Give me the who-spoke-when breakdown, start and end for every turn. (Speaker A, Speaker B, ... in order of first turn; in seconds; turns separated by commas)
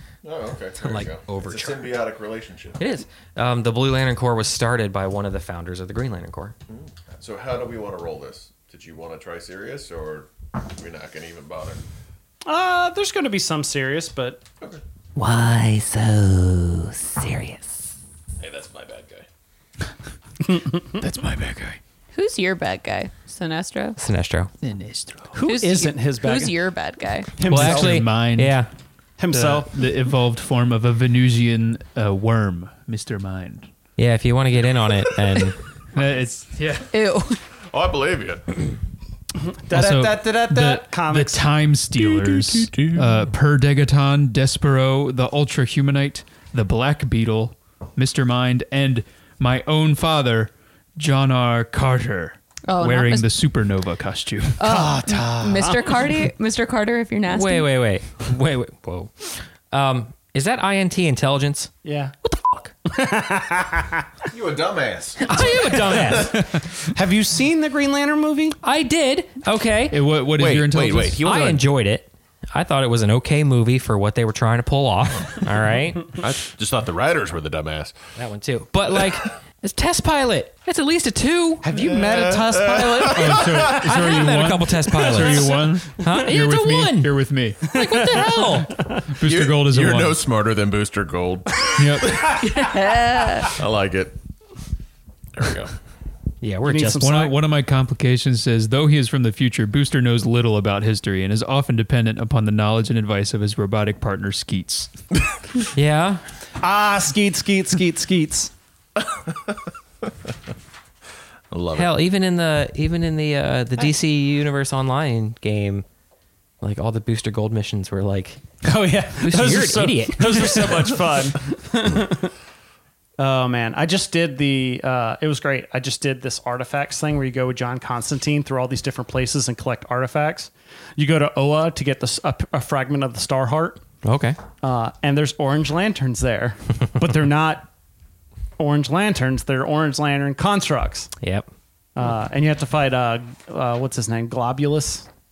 Speaker A: 0.2-2.8, Speaker B: 0.8-1.9, Speaker B: 2.8-6.5, Speaker A: 6.7-11.8, Speaker C: 12.4-14.4, Speaker B: 15.2-17.8, Speaker A: 18.4-19.3, Speaker D: 21.0-21.8, Speaker E: 22.1-24.0, Speaker B: 24.0-24.5, Speaker D: 24.6-25.4, Speaker C: 25.3-26.6, Speaker E: 25.4-27.3, Speaker C: 27.4-28.2, Speaker D: 27.5-28.6, Speaker B: 27.5-28.7, Speaker C: 29.2-29.7, Speaker D: 29.3-33.7, Speaker B: 34.0-35.6, Speaker D: 35.9-36.9, Speaker E: 36.9-37.4, Speaker A: 37.7-38.5, Speaker C: 39.4-41.6, Speaker D: 39.7-54.7, Speaker A: 42.0-43.1, Speaker E: 52.7-53.3, Speaker E: 54.6-57.7, Speaker C: 54.6-56.0, Speaker B: 57.3-61.7, Speaker C: 61.9-62.1, Speaker B: 62.2-62.7, Speaker C: 62.9-64.1, Speaker A: 64.3-65.3, Speaker B: 65.2-66.5, Speaker C: 65.3-68.6, Speaker A: 65.8-66.2, Speaker B: 68.6-70.0, Speaker D: 69.9-71.5, Speaker A: 70.4-71.6, Speaker B: 71.2-76.2, Speaker A: 76.1-78.0, Speaker B: 78.2-81.6, Speaker C: 81.6-84.3, Speaker A: 81.7-83.8, Speaker D: 83.6-87.7, Speaker B: 83.8-88.8, Speaker C: 85.2-85.7, Speaker C: 87.8-89.0, Speaker D: 89.1-90.2, Speaker A: 89.2-92.5, Speaker D: 91.8-92.2, Speaker E: 92.4-93.5, Speaker A: 93.5-94.2, Speaker A: 95.4-95.7, Speaker B: 96.4-97.3, Speaker C: 96.7-97.3, Speaker D: 97.0-104.9, Speaker B: 105.7-106.2, Speaker C: 106.6-108.5, Speaker A: 109.0-109.6, Speaker A: 111.5-112.0, Speaker B: 111.8-115.8, Speaker B: 116.6-118.4, Speaker C: 118.6-122.3, Speaker B: 119.2-121.0, Speaker C: 123.2-133.8, Speaker B: 134.0-134.4, Speaker C: 134.6-137.7, Speaker C: 138.6-141.1, Speaker B: 141.2-141.5, Speaker C: 142.0-145.1